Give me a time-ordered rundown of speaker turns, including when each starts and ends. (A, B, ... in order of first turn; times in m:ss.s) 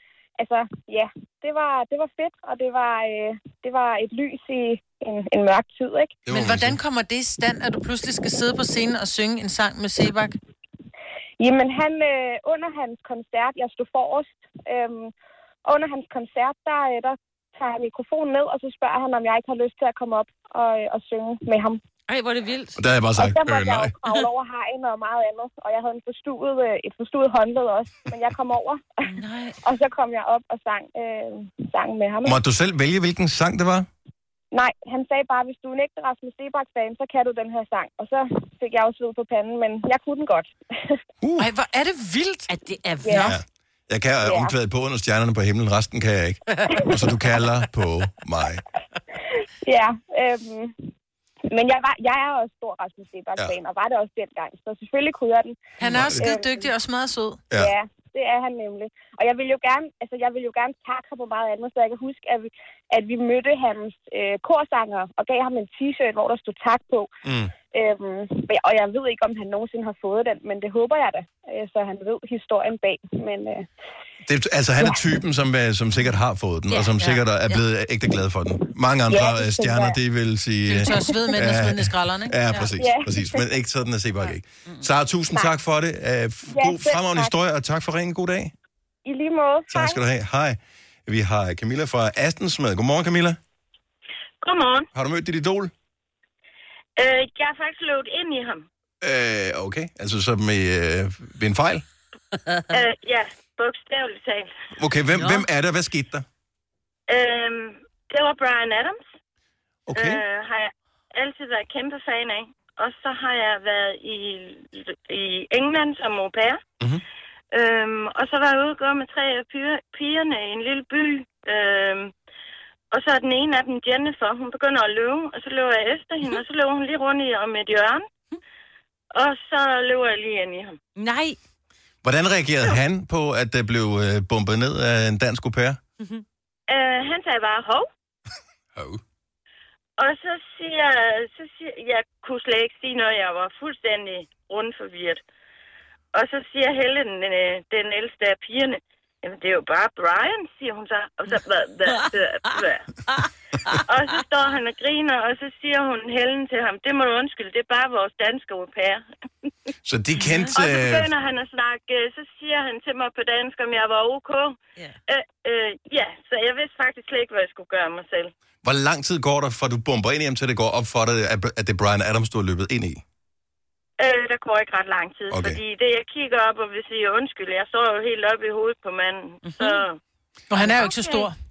0:00.4-0:06.2 A
0:06.2-0:06.8 B
0:06.3-0:10.3 C
0:11.4-0:15.1 A
0:15.6-0:21.8 A
0:22.1-0:22.8 D
0:22.8-0:23.9 B
0:23.2-0:32.4 A
0:29.0-0:29.6 D
0:32.2-0:33.9 B
0:34.5-0:41.0 A
0:41.2-0:41.5 B
0:41.4-0:42.5 C
0:42.5-0:43.3 D
0:43.2-0:48.6 B
0:44.2-0:44.5 A
0:49.6-0:50.7 A
0:51.5-0:56.7 A
0:55.8-0:57.4 C
0:55.8-0:56.3 B
0:57.5-1:07.1 A
1:07.2-1:07.5 B
1:07.7-1:13.7 A
1:14.2-1:28.5 B
1:16.7-1:17.6 D
1:19.1-1:20.0 A
1:20.7-1:22.7 C
1:22.8-1:23.4 A
1:26.5-1:27.3 A
1:29.0-1:30.0 A
1:29.7-1:33.4 B
1:34.4-1:34.9 E
1:34.9-1:35.7 B
1:37.0-1:38.6 E
1:39.0-1:41.8 B
1:42.7-1:44.5 E
1:44.7-1:46.2 B
1:45.1-1:45.5 D
1:47.1-1:49.1 E
1:49.9-1:50.2 B
1:49.9-1:56.6 E
1:57.5-2:02.1 E
2:02.9-2:08.0 E
2:09.1-2:10.8 E
2:11.0-2:11.4 D
2:12.0-2:15.8 B
2:16.7-2:17.9 E
2:18.7-2:19.0 B
2:20.0-2:25.2 E
2:26.1-2:32.8 E
2:31.9-2:32.6 D
2:33.8-2:39.0 E
2:39.8-2:41.1 B
2:40.2-2:40.5 D
2:40.5-2:48.3 E
2:48.6-2:53.0 B
2:54.0-3:00.0 E
2:55.3-2:55.6 B
2:59.4-2:59.8 D
3:00.5-3:01.3 C
3:00.6-3:01.1 D
3:00.8-3:01.2 E